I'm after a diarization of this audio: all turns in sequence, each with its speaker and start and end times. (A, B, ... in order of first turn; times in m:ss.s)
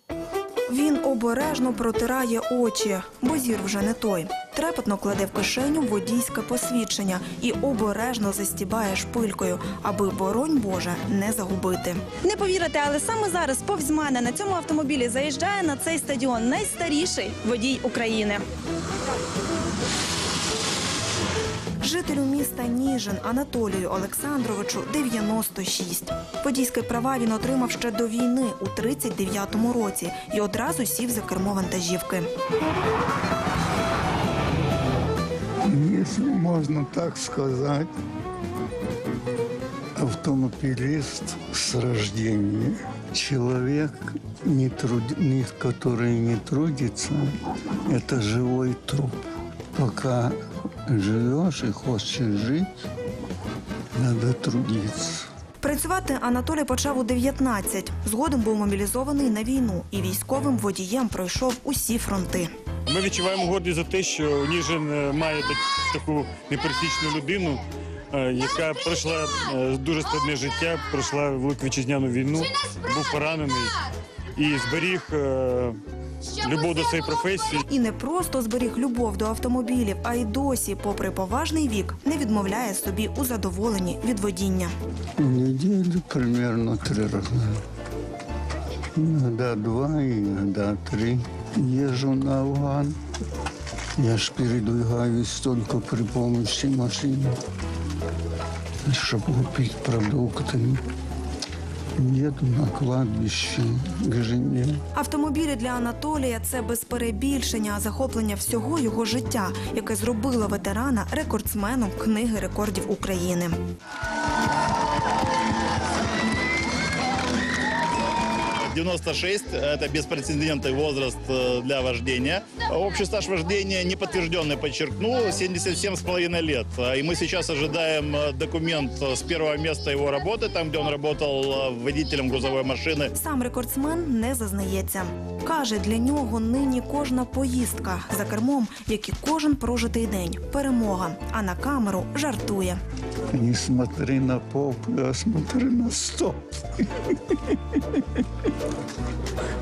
0:00.7-0:12.2 A
0:12.2-0:18.4 B
0:21.8-0:32.3 A
0:35.7-0:37.9 C
0:40.0-0:50.4 C
0:50.9-0:52.7 C
0:54.0-0:55.3 C
0:55.6-1:02.5 A
1:02.9-1:13.8 D
1:14.4-1:15.8 D
1:16.4-1:17.6 D
1:17.7-1:24.7 A
1:25.2-1:27.6 C
1:29.0-1:33.0 C
1:34.0-1:37.4 C
1:38.8-1:40.8 C
1:42.0-1:44.8 C
1:45.0-1:53.6 A
1:58.6-2:13.1 E
2:13.2-2:22.8 A
2:23.3-2:28.2 C